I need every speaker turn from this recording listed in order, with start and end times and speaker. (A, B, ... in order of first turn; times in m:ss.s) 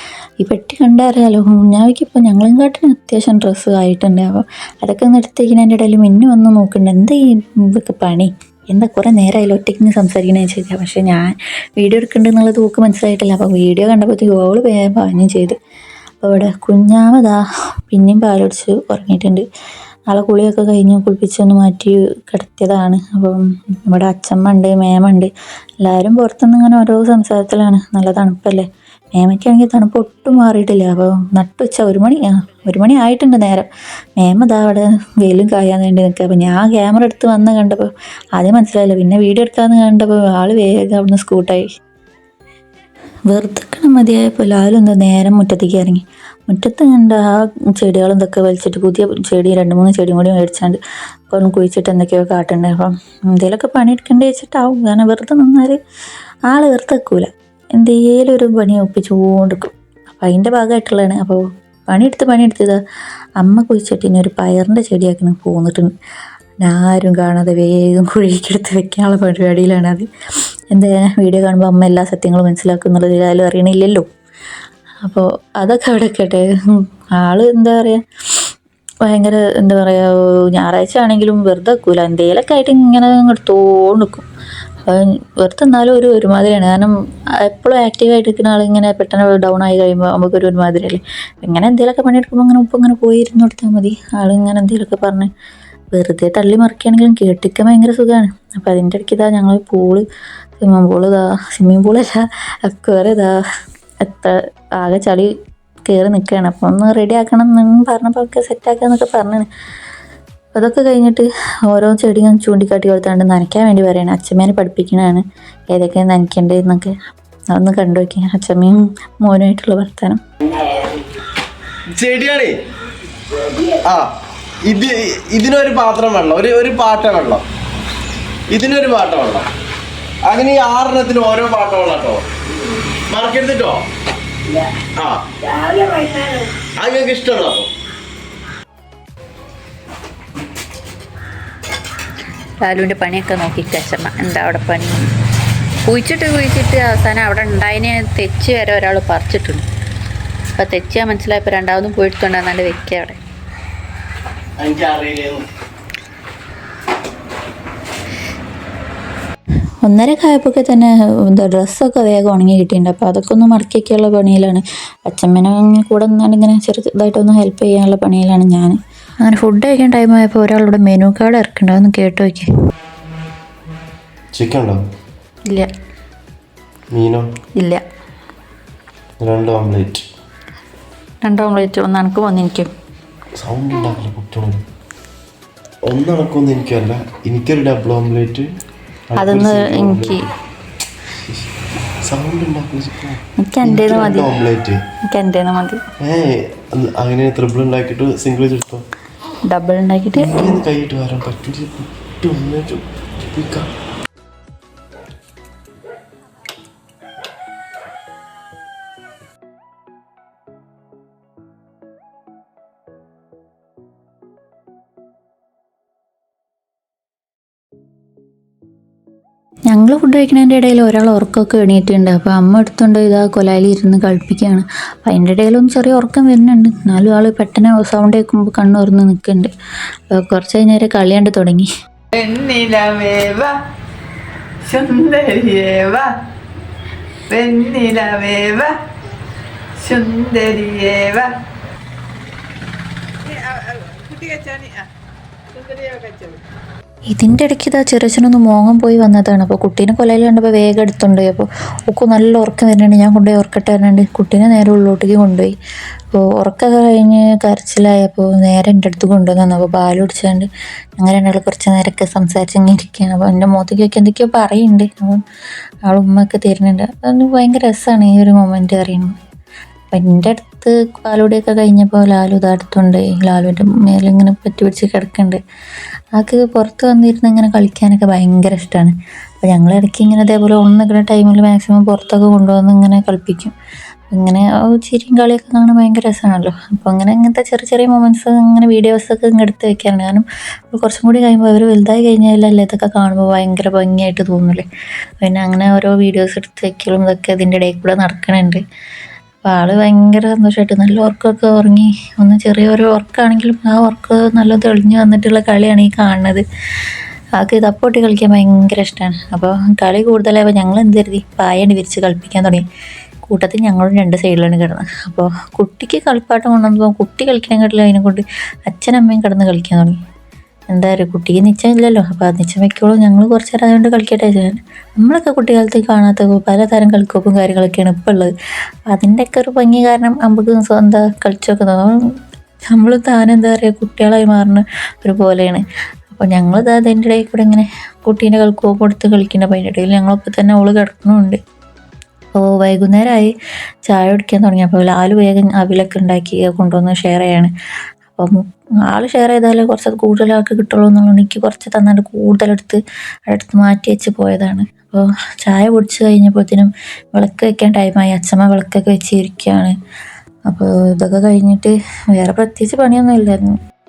0:00.4-0:15.6 A
0:16.2-0:19.4 A
0:20.1-0:41.7 A
0:43.3-0:55.8 A
0:56.5-1:02.8 A
1:03.4-1:05.9 A
1:06.6-1:10.1 A
1:10.7-1:14.1 A
1:15.0-1:18.5 A
1:19.0-1:24.3 A
1:24.8-1:35.3 A
1:35.9-1:40.1 A
1:40.6-1:43.3 A
1:44.0-1:45.3 A
1:45.9-1:49.5 A
1:50.5-1:57.0 A
1:57.5-2:00.2 A
2:01.9-2:02.6 B
2:03.8-2:04.1 B
2:04.7-2:07.4 B
2:08.5-2:09.5 B
2:10.3-2:12.2 B
2:13.1-2:13.9 B
2:15.0-2:15.3 B
2:15.5-2:16.5 C
2:16.8-2:17.7 B
2:22.6-2:25.1 C
2:25.9-2:29.6 C
2:30.6-2:33.2 C
2:34.6-2:35.5 B
2:39.8-2:52.5 A
2:54.3-2:54.8 B
2:56.9-2:57.3 B
2:59.2-3:00.0 B
3:01.2-3:02.7 A
3:03.4-3:04.6 B
3:05.8-3:08.5 B
3:09.1-3:10.2 B
3:09.2-3:10.2 A
3:11.2-3:11.5 B
3:12.1-3:14.8 B
3:13.4-3:14.4 A
3:15.1-3:15.8 A
3:16.0-3:18.9 B
3:19.5-3:20.3 A
3:20.2-3:23.7 B
3:39.7-3:49.5 A
3:50.1-3:51.7 A
3:52.2-3:53.5 D
3:52.2-3:53.4 C
3:54.7-3:56.1 D
3:55.0-3:55.4 C
3:57.3-3:58.8 D
3:57.4-3:58.5 C
3:59.8-4:01.3 D
3:59.9-4:01.0 C
4:03.3-4:04.8 D
4:05.5-4:06.4 D
4:07.1-4:15.5 A
4:16.1-4:25.2 A
4:25.8-4:29.2 A
4:29.9-4:35.4 A
4:36.1-4:43.6 A
4:44.1-4:54.7 A
4:55.2-4:58.6 A
4:59.5-5:06.4 A
5:07.4-5:12.6 A
5:13.2-5:20.0 A
5:20.7-5:28.3 A
5:28.9-5:32.0 A
5:32.7-5:41.4 A
5:42.4-5:43.3 A
5:43.9-5:47.5 A
5:48.2-5:59.8 A
6:00.5-6:03.6 A